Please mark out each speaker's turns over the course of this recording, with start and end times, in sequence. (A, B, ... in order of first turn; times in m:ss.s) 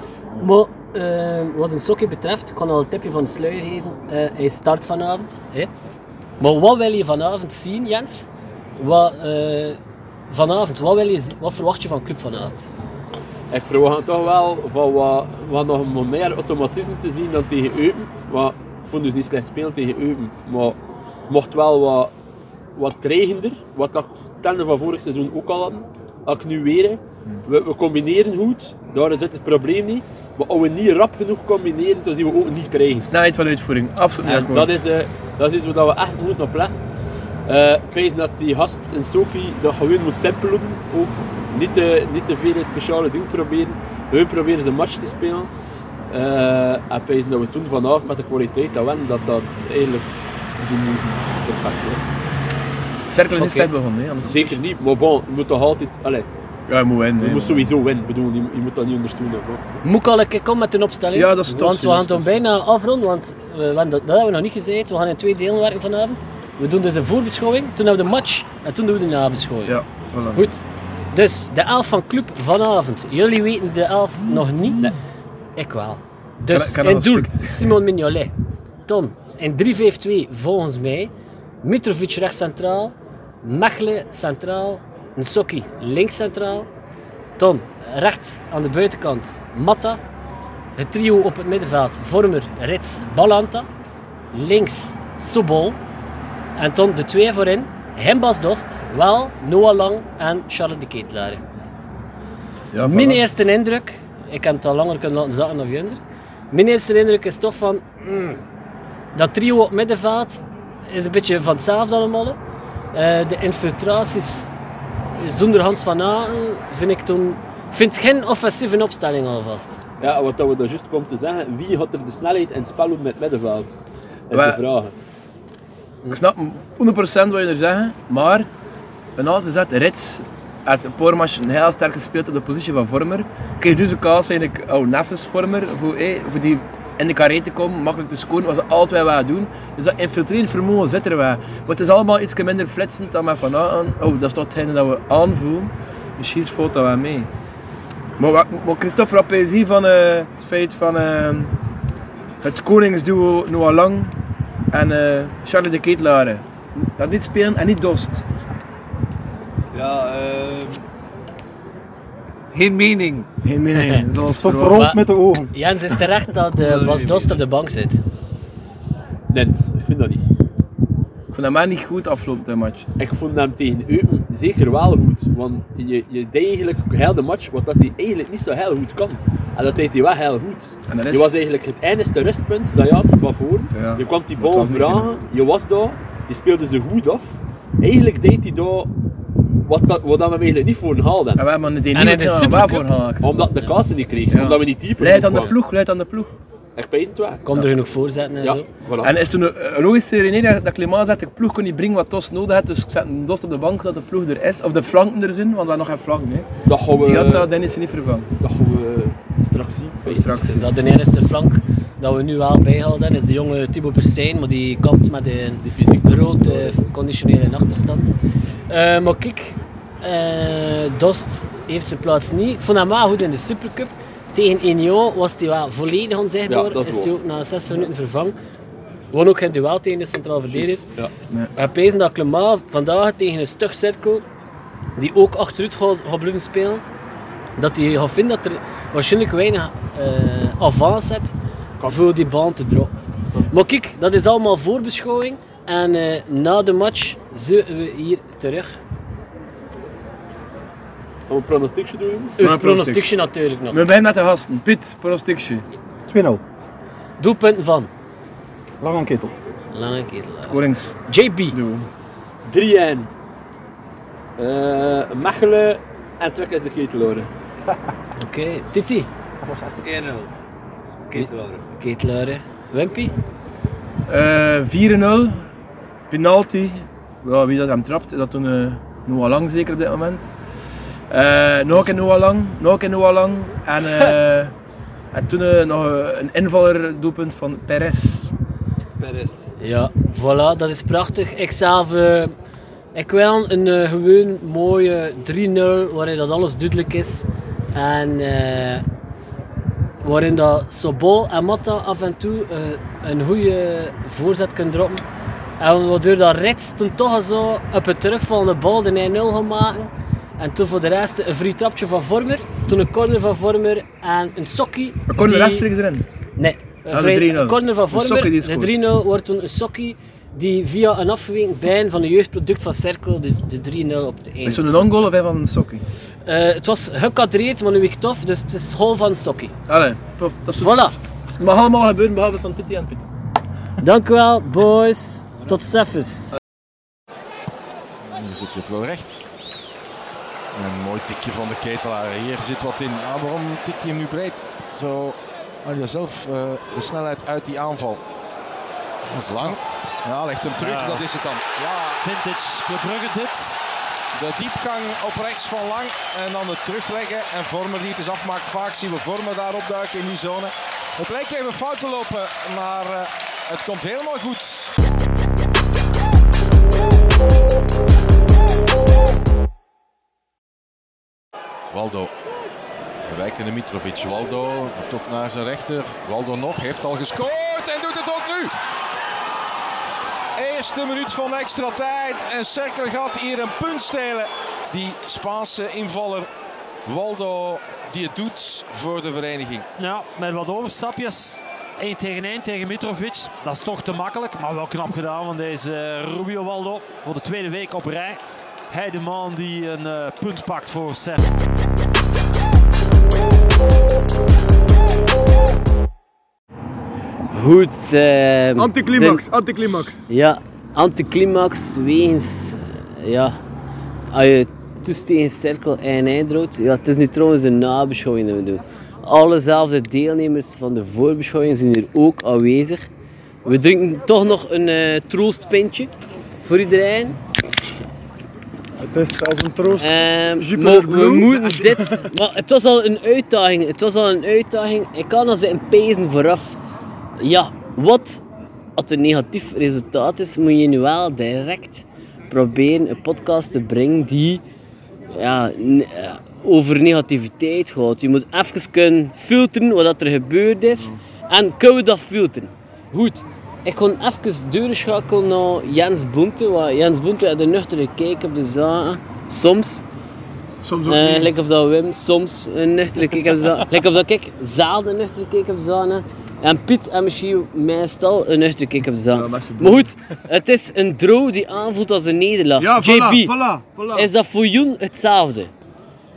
0:00.4-0:05.7 A
0:06.4-0:09.8 A
0:10.3-0:12.7 A
0:13.5-0:20.8 B
0:21.3-0:22.1 B
0:22.8-0:33.1 B
0:33.0-0:34.8 C
0:34.2-0:36.7 B
0:37.5-0:45.5 B
0:46.1-0:50.0 B
0:50.6-0:52.0 B
0:53.1-0:54.6 C
0:53.4-0:53.7 B
0:54.2-0:56.3 B
0:56.7-0:57.7 C
0:57.2-0:59.8 B
0:59.8-1:09.8 A
1:01.1-1:02.3 C
1:09.6-1:10.4 C
1:10.3-1:14.9 A
1:15.6-1:18.3 A
1:16.5-1:17.7 C
1:18.9-1:21.1 A
1:21.6-1:26.7 A
1:27.4-1:30.0 A
1:30.8-1:33.7 A
1:34.3-1:35.8 A
1:36.6-1:41.4 A
1:42.7-1:43.2 C
1:42.8-1:46.0 A
1:46.5-1:48.4 A
1:49.1-1:52.4 A
1:52.9-1:54.5 A
1:55.2-1:59.8 A
2:00.0-2:03.7 B
2:04.3-2:04.9 B
2:04.3-2:04.6 C
2:06.1-2:08.5 C
2:09.2-2:27.3 C
2:28.2-2:31.5 C
2:32.4-2:34.1 C
2:34.7-2:38.2 C
2:39.7-2:40.8 D
2:42.5-2:43.3 D
2:43.4-2:44.9 C
2:44.3-2:45.5 E
2:44.6-2:45.0 A
2:45.5-2:48.0 A
2:46.7-2:47.3 D
2:49.3-2:50.2 B
2:51.3-2:52.9 C
2:53.0-3:08.9 B
3:00.9-3:01.3 C
3:03.7-3:04.0 C
3:04.4-3:05.0 E
3:09.7-3:11.4 B
3:11.4-3:13.4 C
3:11.9-3:12.8 A
3:13.2-3:15.5 B
3:14.3-3:16.3 C
3:16.8-3:17.7 B
3:17.4-3:18.6 A
3:18.4-3:19.1 B
3:19.0-3:28.3 C
3:26.7-3:27.5 B
3:28.4-3:30.6 B
3:30.0-3:30.6 C
3:30.4-3:38.1 A
3:35.6-3:36.7 B
3:38.7-3:48.3 A
3:46.5-3:47.1 B
3:49.1-3:50.8 A
3:50.5-3:51.1 B
3:51.6-3:54.2 A
3:55.0-3:56.8 A
3:57.6-4:02.9 A
4:03.5-4:08.8 A
4:11.3-4:12.4 B
4:12.4-4:13.1 C
4:12.4-4:13.8 A
4:13.7-4:15.6 C
4:16.1-4:16.4 E
4:17.2-4:17.9 A
4:18.8-4:19.3 E
4:19.7-4:21.6 A
4:20.4-4:21.0 C
4:21.5-4:21.9 C
4:22.4-4:23.1 B
4:24.4-4:27.3 B
4:28.2-4:29.1 A
4:29.4-4:29.8 E
4:29.8-4:30.3 D
4:31.1-4:31.6 D
4:31.1-4:33.1 A
4:34.1-4:35.4 C
4:36.1-4:40.3 C
4:41.1-4:44.5 C
4:45.1-4:48.3 C
4:49.0-4:49.5 D
4:49.6-4:52.3 A
4:52.9-4:58.8 A
5:00.0-5:05.0 A
5:05.6-5:15.7 A
5:15.1-5:16.0 C
5:16.4-5:25.0 A
5:16.9-5:18.7 C
5:24.4-5:25.8 C
5:26.2-5:29.5 A
5:29.7-5:33.0 C
5:30.6-5:31.0 A
5:33.8-5:36.3 A
5:38.0-5:39.2 F
5:40.5-5:48.0 F
5:49.1-5:51.5 F
5:50.5-5:53.6 G
5:54.1-6:04.7 F
6:11.7-6:12.1 F
6:13.0-6:18.5 F
6:20.4-6:26.3 F
6:26.8-6:29.7 F
6:29.8-6:41.3 G
6:47.3-6:49.2 A
6:48.6-6:50.1 C
6:50.1-6:53.4 A
6:54.1-7:02.9 A
7:03.4-7:05.9 A
7:06.4-7:07.2 A
7:08.8-7:11.9 E
7:09.8-7:16.6 A
7:17.2-7:18.2 A
7:18.8-7:24.4 A
7:25.1-7:39.8 A
7:40.6-7:41.3 C
7:40.9-7:53.3 A
7:49.1-7:49.9 C
7:52.6-7:54.1 C
7:53.9-7:55.5 A